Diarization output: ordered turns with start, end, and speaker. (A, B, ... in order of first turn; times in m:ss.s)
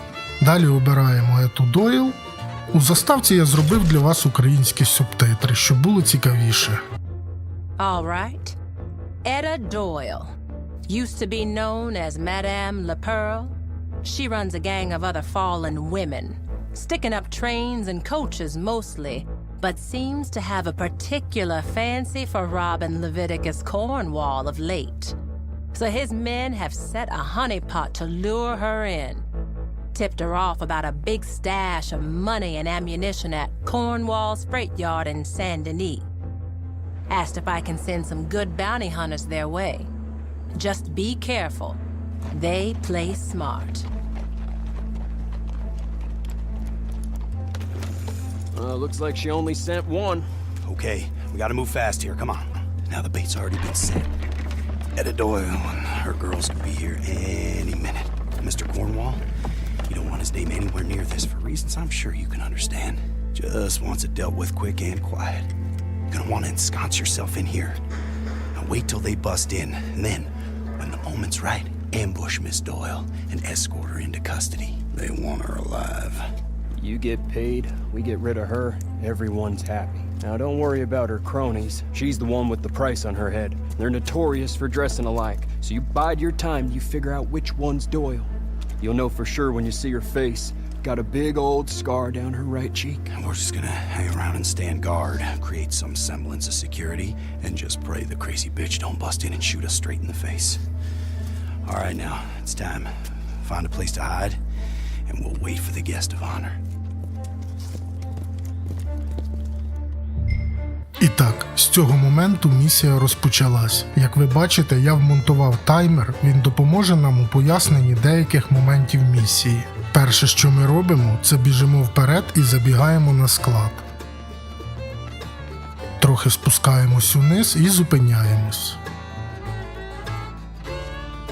0:00.4-0:02.2 A
0:02.7-0:06.8 A
0:07.8-0:08.6 B
0:09.2-0:10.3 B
0:10.9-0:25.2 B
0:25.7-0:29.2 B
0:29.9-0:36.1 B
0:37.1-0:39.9 B
0:40.6-0:41.8 B
0:42.3-0:43.9 B
0:48.5-0:50.3 C
0:50.6-0:54.1 D
0:55.0-0:59.2 D
0:59.9-1:05.5 D
1:06.1-1:07.8 D
1:08.5-1:16.4 D
1:16.8-1:33.1 C
1:33.1-1:40.6 D
1:41.6-1:44.4 D
1:45.1-1:46.6 D
1:51.0-2:03.8 A
2:06.0-2:08.8 A